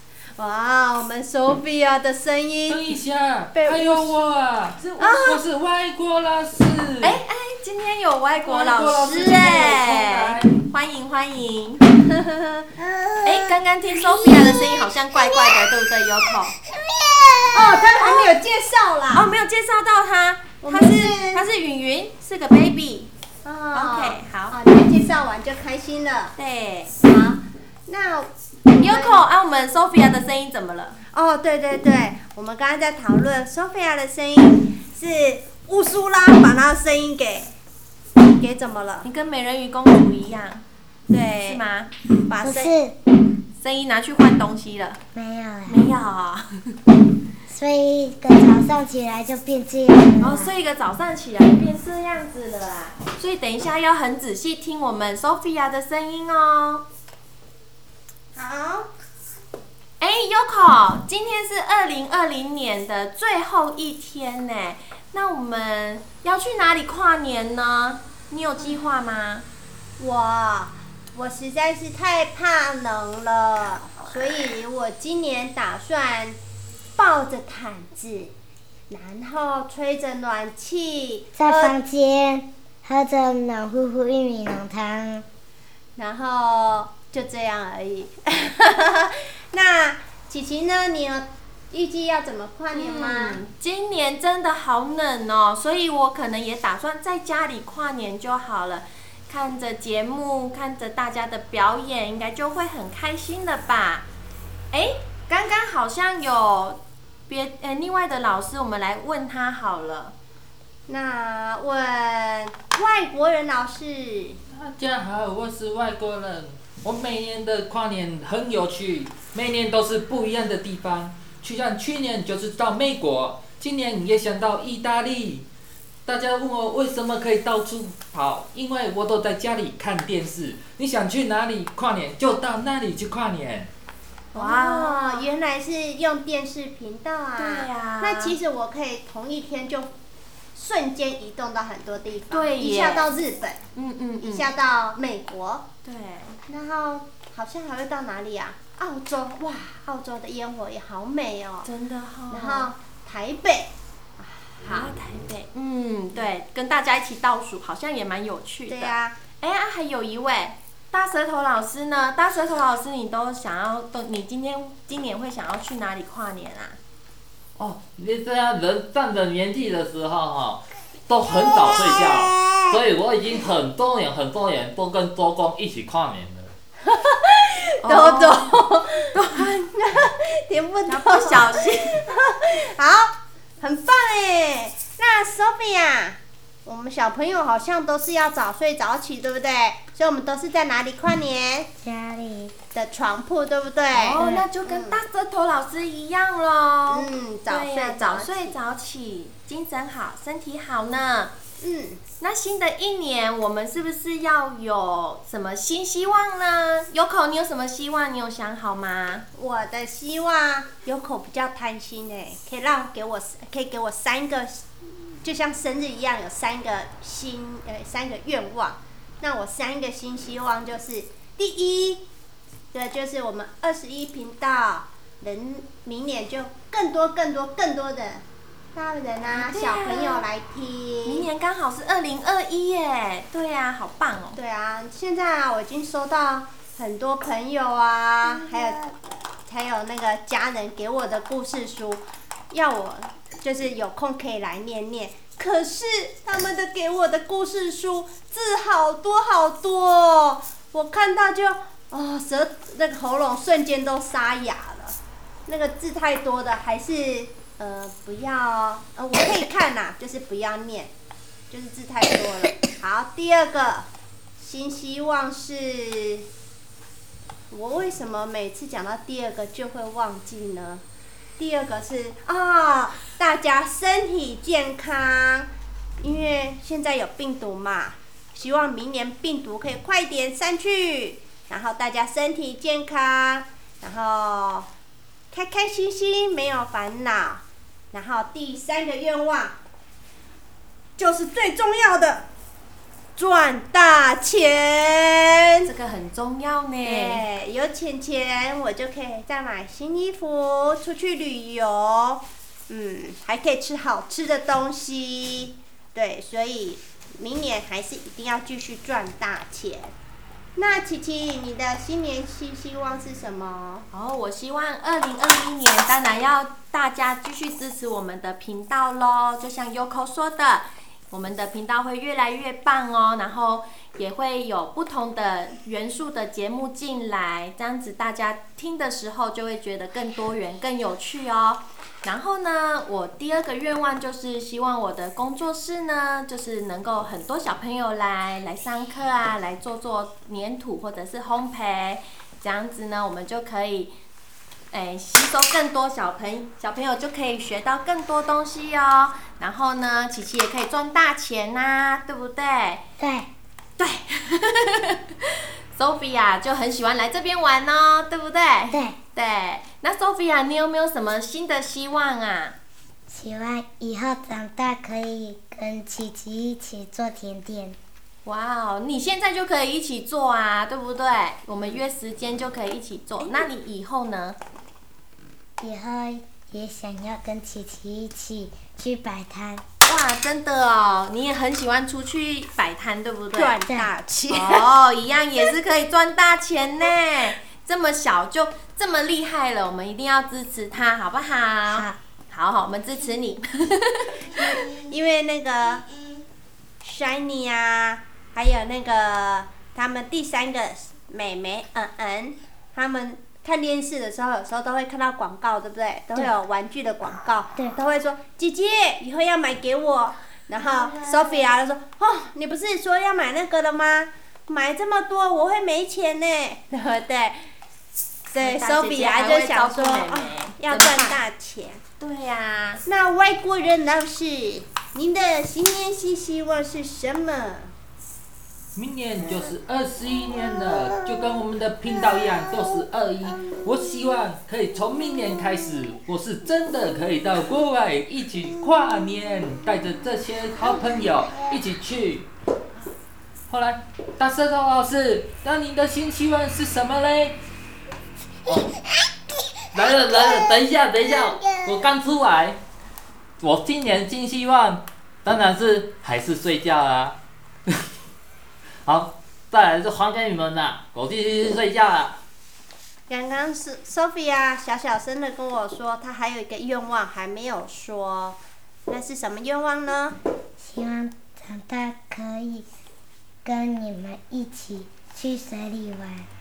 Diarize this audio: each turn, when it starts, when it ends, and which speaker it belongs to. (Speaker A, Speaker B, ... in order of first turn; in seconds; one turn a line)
Speaker A: 0.4-3.0
Speaker B: 2.7-7.2
Speaker A: 3.5-4.2
Speaker C: 4.8-5.3
Speaker A: 5.0-5.4
Speaker C: 7.0-11.8
Speaker B: 8.4-10.5
Speaker A: 12.0-14.9
Speaker C: 13.2-16.6
Speaker D: 16.8-17.8
Speaker A: 17.5-19.3
Speaker C: 18.0-18.2
Speaker C: 19.1-23.1
Speaker A: 20.6-21.4
Speaker A: 23.4-26.3
Speaker C: 23.7-24.6
Speaker C: 26.4-26.9
Speaker A: 27.0-29.2
Speaker C: 28.8-31.0
Speaker A: 31.1-37.5
Speaker A: 38.2-39.1
Speaker C: 39.0-40.6
Speaker A: 41.1-41.6
Speaker C: 41.4-41.9
Speaker A: 42.2-42.7
Speaker D: 42.4-42.9
Speaker C: 43.6-45.0
Speaker D: 45.1-45.8
Speaker C: 45.6-46.7
Speaker D: 47.5-50.5
Speaker C: 50.2-56.8
Speaker A: 58.3-58.9
Speaker C: 60.0-69.5
Speaker A: 70.0-76.4
Speaker A: 77.0-78.3
Speaker A: 78.9-81.8
Speaker D: 81.3-85.2
Speaker A: 86.0-93.4
Speaker C: 92.7-104.0
Speaker C: 104.7-110.1
Speaker A: 110.9-114.4
Speaker B: 114.5-125.5
Speaker B: 126.0-133.7
Speaker C: 134.3-135.3
Speaker A: 134.3-139.9
Speaker C: 137.4-138.3
Speaker A: 140.5-143.6
Speaker C: 142.3-143.1
Speaker C: 143.7-144.4
Speaker A: 144.2-145.6
Speaker C: 145.8-146.4
Speaker A: 146.5-151.7
Speaker C: 151.6-152.7
Speaker A: 152.3-154.9
Speaker C: 154.6-166.8
Speaker A: 158.7-159.2
Speaker B: 167.6-176.5
Speaker A: 171.3-172.8
Speaker A: 176.8-183.1
Speaker C: 177.8-178.5
Speaker C: 179.1-179.7
Speaker C: 180.9-182.0
Speaker A: 183.6-191.7
Speaker D: 191.8-192.5
Speaker A: 192.7-195.0
Speaker C: 193.9-201.3
Speaker D: 194.2-194.5
Speaker A: 196.9-198.5
Speaker A: 201.6-202.0
Speaker C: 202.2-209.2
Speaker A: 209.3-214.7
Speaker A: 215.2-222.0
Speaker A: 222.7-228.2
Speaker A: 228.7-231.2
Speaker C: 229.3-230.2
Speaker C: 231.0-234.4
Speaker A: 234.3-254.9
Speaker A: 255.5-260.9
Speaker A: 261.5-263.9
Speaker A: 264.4-266.2
Speaker A: 267.5-270.8
Speaker A: 271.4-275.5
Speaker A: 276.0-284.7
Speaker A: 285.3-289.6
Speaker A: 291.0-292.2
Speaker A: 293.1-295.7
Speaker C: 295.6-297.2
Speaker A: 296.8-309.9
Speaker A: 310.6-313.9
Speaker C: 313.9-343.9
Speaker C: 344.7-352.8
Speaker D: 353.0-353.3
Speaker C: 353.8-362.6
Speaker D: 358.7-359.0
Speaker D: 363.1-367.8
Speaker C: 368.2-374.4
Speaker D: 375.6-379.6
Speaker C: 379.8-383.6
Speaker A: 383.3-384.7
Speaker C: 384.3-394.6
Speaker D: 391.7-392.0
Speaker A: 394.3-395.8
Speaker A: 396.8-417.4
Speaker A: 418.3-421.8
Speaker C: 418.4-421.2
Speaker C: 422.0-422.8
Speaker A: 422.8-427.7
Speaker B: 428.7-442.3
Speaker B: 443.5-447.4
Speaker B: 449.7-452.6
Speaker D: 451.2-451.9
Speaker B: 453.4-457.7
Speaker B: 458.8-462.2
Speaker A: 463.1-470.1
Speaker D: 470.6-472.6
Speaker D: 473.4-476.3